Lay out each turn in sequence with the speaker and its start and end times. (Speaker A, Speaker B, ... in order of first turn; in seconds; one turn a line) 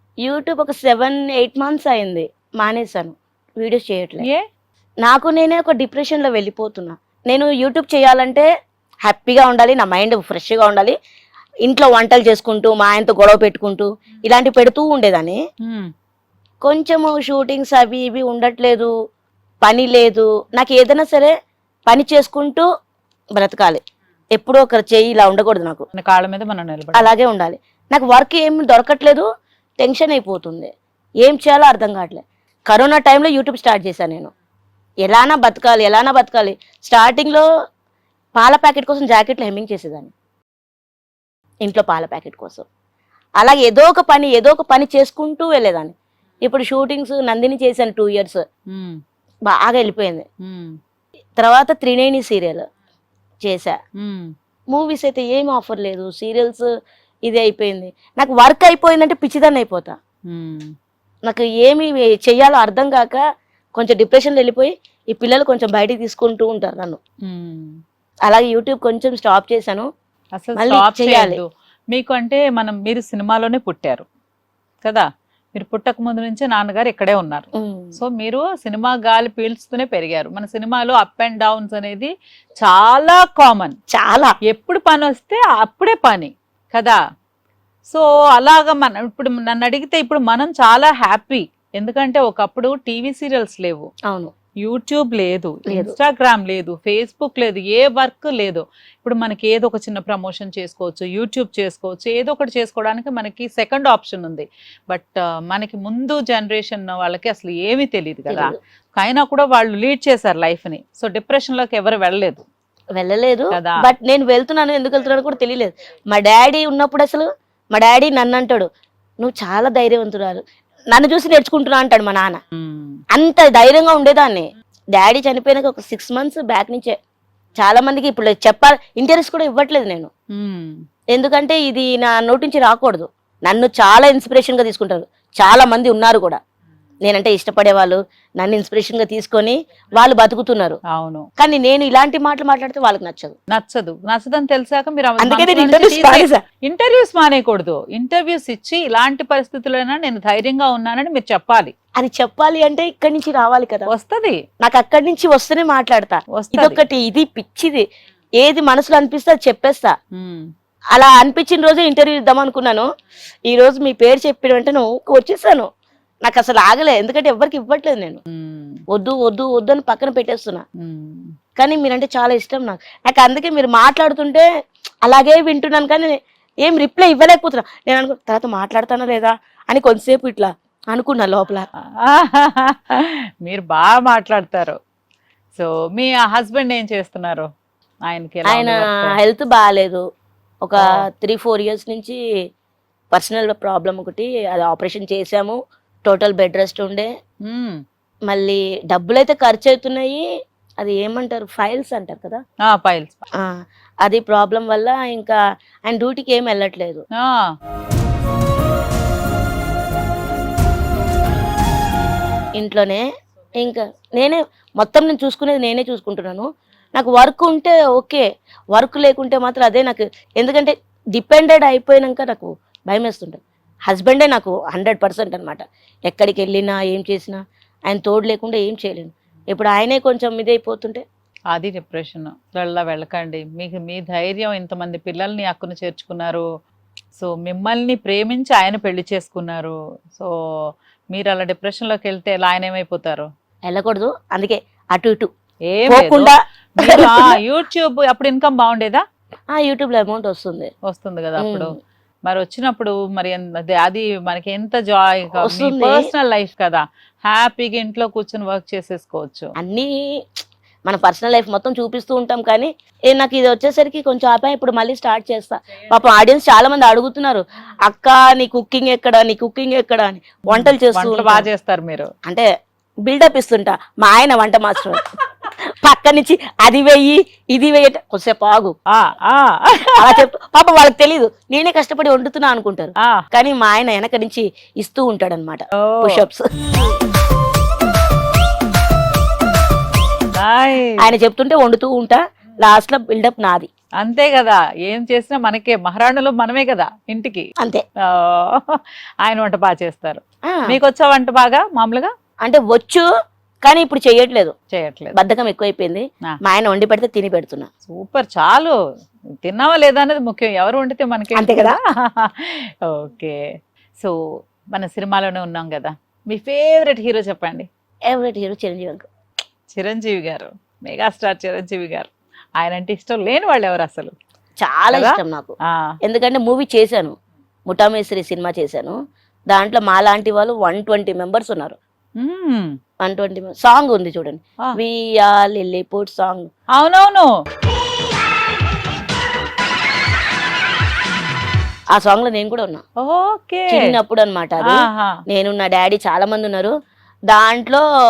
Speaker A: 0.2-4.2
Speaker A: 5.0-8.5
Speaker A: 9.0-10.9
Speaker A: 11.6-15.4
Speaker B: 15.6-15.9
Speaker A: 16.6-18.9
Speaker A: 19.6-21.3
Speaker A: 21.9-22.6
Speaker A: 23.4-23.8
Speaker A: 24.3-25.9
Speaker B: 25.9-27.1
Speaker A: 26.9-29.3
Speaker A: 29.8-30.7
Speaker A: 31.2-34.3
Speaker A: 35.0-37.5
Speaker A: 38.4-40.1
Speaker A: 41.6-42.6
Speaker A: 43.4-48.4
Speaker B: 48.7-49.0
Speaker A: 49.5-50.2
Speaker B: 50.4-50.8
Speaker A: 51.4-52.6
Speaker A: 53.4-53.8
Speaker B: 54.0-54.3
Speaker A: 54.7-56.7
Speaker A: 57.3-59.9
Speaker B: 60.3-60.7
Speaker A: 61.3-63.2
Speaker A: 63.8-67.0
Speaker B: 67.3-67.8
Speaker A: 68.3-69.9
Speaker B: 70.3-74.0
Speaker A: 70.5-71.4
Speaker B: 74.8-83.8
Speaker A: 77.5-78.0
Speaker A: 83.9-84.3
Speaker B: 84.5-87.0
Speaker B: 87.9-93.9
Speaker B: 94.6-112.4
Speaker A: 95.7-95.9
Speaker A: 108.3-108.6
Speaker A: 113.0-118.7
Speaker B: 113.5-113.8
Speaker A: 119.2-120.4
Speaker A: 120.9-122.4
Speaker B: 122.5-123.0
Speaker A: 123.1-127.0
Speaker A: 127.6-130.1
Speaker B: 130.3-130.8
Speaker A: 131.1-136.4
Speaker A: 137.0-140.8
Speaker B: 140.9-141.2
Speaker A: 141.4-143.3
Speaker B: 143.5-151.7
Speaker A: 145.2-146.4
Speaker A: 152.0-153.9
Speaker B: 153.9-154.4
Speaker A: 154.6-157.8
Speaker B: 156.3-156.8
Speaker A: 158.4-159.9
Speaker B: 160.1-160.5
Speaker A: 160.9-162.9
Speaker A: 163.5-165.7
Speaker A: 166.2-168.2
Speaker B: 168.3-168.8
Speaker A: 168.9-170.6
Speaker B: 170.8-171.3
Speaker A: 171.6-174.4
Speaker A: 175.0-181.7
Speaker B: 182.0-184.8
Speaker B: 185.6-187.5
Speaker B: 188.1-189.2
Speaker A: 188.4-190.0
Speaker A: 190.6-192.2
Speaker A: 193.1-197.1
Speaker B: 197.5-197.8
Speaker A: 198.3-200.2
Speaker A: 200.8-202.4
Speaker B: 202.6-203.3
Speaker A: 204.0-207.0
Speaker B: 207.2-207.4
Speaker A: 212.5-213.0
Speaker A: 213.6-231.0
Speaker B: 231.5-236.4
Speaker B: 237.2-240.3
Speaker B: 241.1-243.3
Speaker A: 243.7-245.3
Speaker B: 245.7-249.0
Speaker A: 245.9-247.4
Speaker A: 249.5-250.7
Speaker B: 250.8-251.7
Speaker A: 251.4-251.7
Speaker B: 252.2-259.5
Speaker A: 255.4-256.1
Speaker A: 259.6-259.9
Speaker A: 260.9-271.5
Speaker B: 270.5-272.1
Speaker A: 273.0-275.0
Speaker A: 275.8-278.7
Speaker B: 278.9-280.2
Speaker A: 280.0-286.8
Speaker B: 285.8-286.2
Speaker B: 290.4-291.1
Speaker A: 291.0-293.7
Speaker B: 294.0-297.5
Speaker B: 298.1-302.1
Speaker A: 300.5-300.8
Speaker A: 302.4-303.0
Speaker A: 303.6-304.5
Speaker B: 304.7-305.1
Speaker A: 305.1-307.7
Speaker B: 307.9-308.7
Speaker B: 309.4-313.4
Speaker A: 311.4-311.8
Speaker B: 314.7-317.7
Speaker A: 318.1-319.1
Speaker B: 319.7-324.1
Speaker A: 324.6-327.1
Speaker B: 324.9-325.9
Speaker A: 327.7-328.9
Speaker A: 329.5-331.8
Speaker B: 332.2-332.7
Speaker A: 333.0-336.5
Speaker B: 336.7-337.3
Speaker A: 341.9-342.8
Speaker B: 343.0-343.9
Speaker A: 343.7-346.7
Speaker B: 344.6-345.2
Speaker A: 347.3-347.8